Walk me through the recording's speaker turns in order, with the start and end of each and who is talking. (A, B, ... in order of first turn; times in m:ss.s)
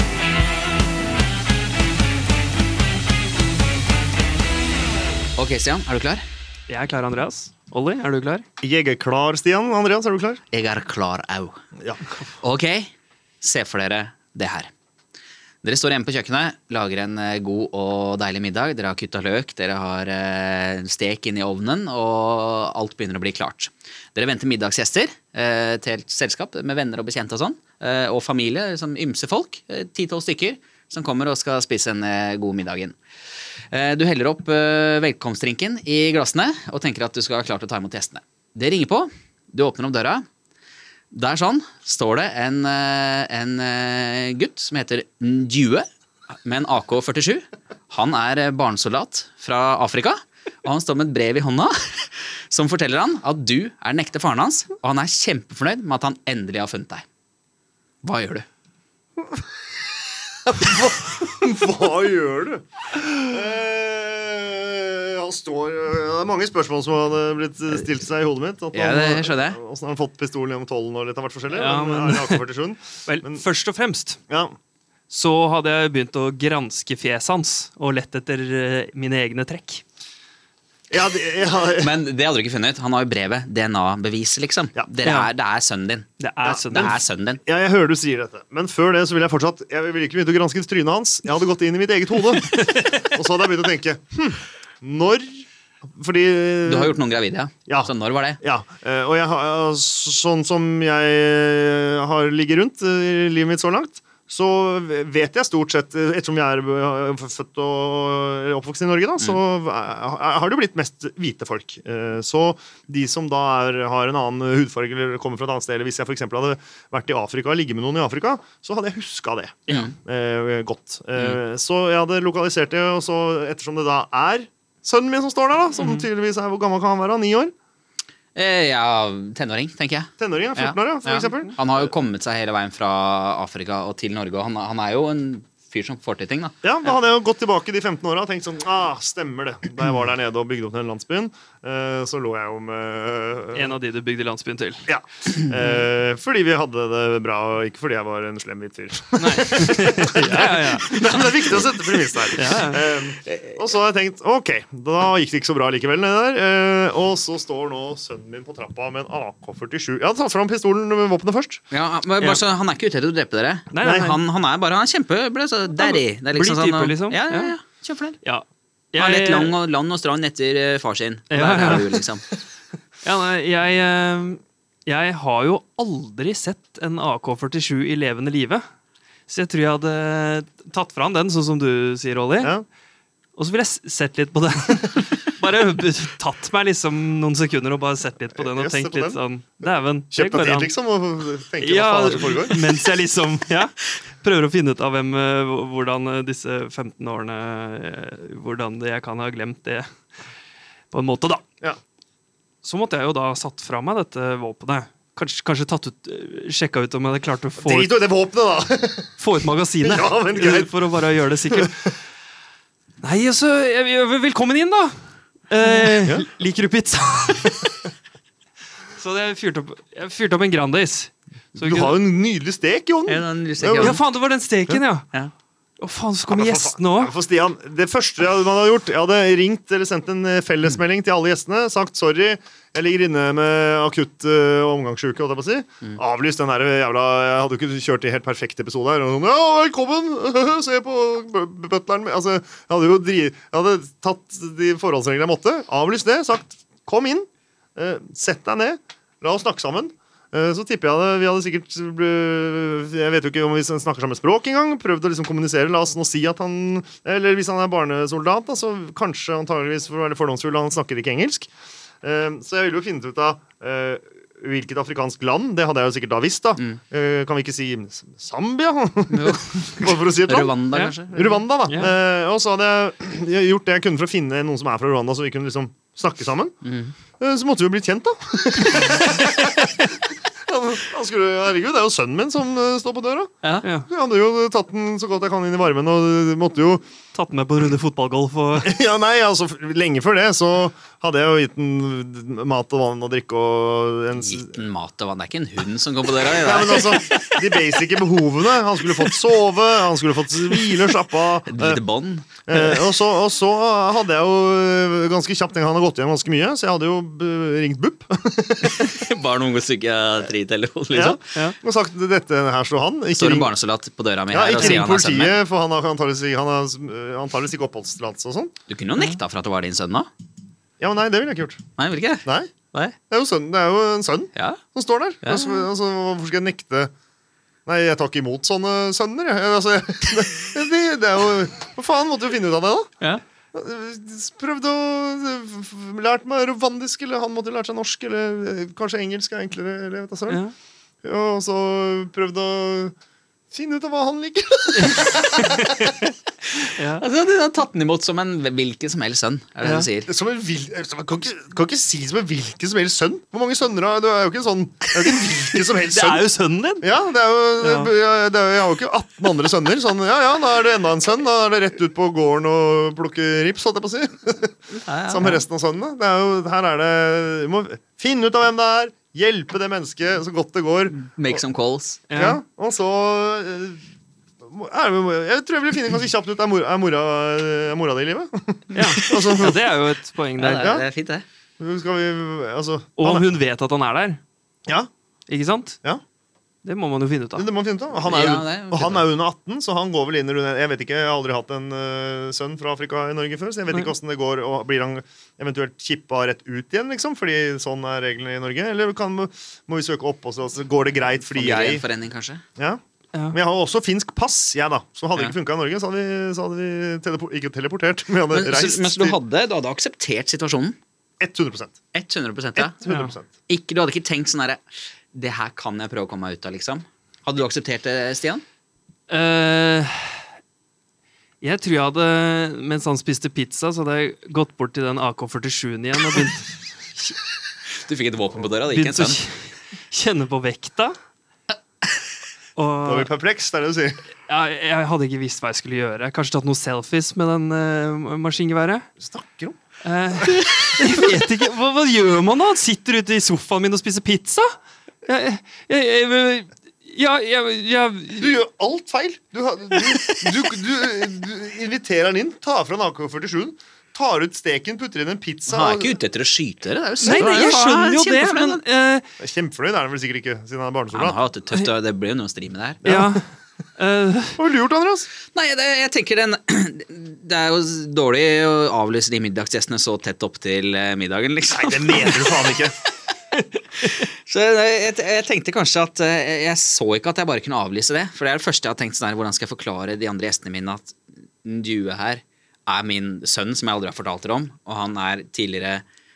0:05.4-0:06.2 A
0:06.7-0:08.4 B
0:08.6-0:10.4 C
0:10.5-0:11.6 A
0:12.4-0:12.9 A
0:13.4-0:14.7 A
0:15.6-0:33.0 A
0:33.7-0:40.2 A
0:41.1-0:45.9 A
0:46.4-0:57.0 A
0:58.0-0:58.5 A
1:00.5-1:13.4 C
1:08.7-1:09.6 A
1:11.5-1:12.4 B
1:13.1-1:14.2 B
1:15.1-1:19.8 B
1:20.9-1:21.9 C
1:21.7-1:26.1 A
1:25.0-1:25.3 B
1:26.2-1:27.0 B
1:26.4-1:37.0 C
1:26.7-1:27.4 A
1:32.3-1:33.0 B
1:36.6-1:38.4 A
1:37.7-2:07.5 C
1:59.7-1:59.9 A
2:05.8-2:06.1 A
2:08.4-2:16.6 A
2:10.2-2:11.9 C
2:16.6-2:23.7 C
2:23.6-2:24.8 B
2:24.9-2:41.6 C
2:29.2-2:31.0 B
2:32.4-2:32.8 B
2:41.7-2:48.2 A
2:43.7-2:44.2 B
2:43.8-2:44.1 C
2:45.8-2:47.6 B
2:48.2-2:49.6 B
2:49.0-2:52.2 A
2:51.3-2:52.0 B
2:53.0-2:58.6 B
2:59.3-3:02.5 B
3:03.4-3:10.7 B
3:08.4-3:09.2 C
3:10.1-3:12.7 C
3:11.6-3:19.9 B
3:20.9-3:21.4 B
3:22.6-3:28.0 B
3:27.6-3:29.2 C
3:29.2-3:31.9 B
3:29.8-3:31.7 C
3:33.0-3:35.0 B
3:35.5-3:37.8 B
3:39.0-3:42.0 B
3:41.6-3:44.0 C
3:43.1-3:44.0 A
3:43.8-3:45.1 B
3:45.8-3:47.1 B
3:46.3-4:21.5 C
4:22.0-4:30.6 C
4:29.1-4:31.3 A
4:30.7-4:31.9 B
4:31.1-4:36.6 C
4:36.6-4:36.9 A
4:37.2-4:39.9 C
4:40.5-4:43.3 C
4:43.4-4:43.7 A
4:43.6-4:43.9 B
4:43.9-4:46.8 C
4:47.1-4:48.7 B
4:48.6-4:54.6 C
4:54.2-4:57.0 A
4:56.4-5:01.8 C
4:56.6-4:57.6 B
5:01.5-5:02.8 A
5:02.5-5:09.0 C
5:08.6-5:11.2 A
5:10.9-5:13.5 C
5:13.1-5:15.4 A
5:14.3-5:18.5 C
5:18.7-5:20.1 A
5:20.8-5:21.6 C
5:21.8-5:23.0 A
5:22.2-5:22.5 C
5:23.1-5:26.9 C
5:24.4-5:24.6 A
5:25.2-5:25.7 A
5:27.7-5:32.9 C
5:33.5-5:40.4 C
5:41.0-5:42.9 C
5:43.5-5:45.6 C
5:46.8-5:47.0 B
5:47.0-5:50.1 A
5:49.6-5:49.9 B
5:50.1-5:56.2 C
5:55.9-5:56.9 B
5:56.8-6:04.6 C
5:57.6-5:57.9 B
6:04.8-6:05.4 A
6:05.1-6:11.4 C
6:10.9-6:12.0 A
6:12.1-6:12.4 B
6:12.2-6:13.8 C
6:14.4-6:19.6 C
6:18.8-6:20.7 B
6:20.4-6:21.2 A
6:20.6-6:20.8 C
6:21.6-6:23.3 C
6:23.0-6:24.2 B
6:25.3-6:25.8 B
6:26.6-6:27.5 B
6:27.4-6:41.8 C
6:28.0-6:29.1 A
6:41.3-6:42.4 A
6:43.3-6:49.2 C
6:48.3-6:50.8 A
6:51.2-6:51.8 C
6:51.9-6:52.8 A
6:52.6-6:53.3 C
6:52.9-6:53.1 B
6:53.5-6:54.6 A
6:55.1-6:58.4 A
6:59.1-7:00.1 B
7:01.4-7:06.5 B
7:07.8-7:09.2 A
7:08.7-7:11.0 B
7:12.6-7:13.1 B
7:12.8-7:14.0 C
7:14.3-7:18.9 B
7:19.0-7:19.6 C
7:19.8-7:24.5 B
7:25.0-7:28.4 B
7:28.2-7:36.0 C
7:29.8-7:30.1 B
7:35.5-7:38.6 A
7:37.0-7:39.1 B
7:37.1-7:37.6 C
7:39.2-7:41.2 C
7:40.9-7:42.8 A
7:42.8-7:43.2 C
7:42.8-7:43.2 B
7:43.8-7:44.4 B
7:44.4-7:45.1 C
7:45.3-7:52.4 A
7:51.5-7:52.7 C
7:53.8-8:05.8 A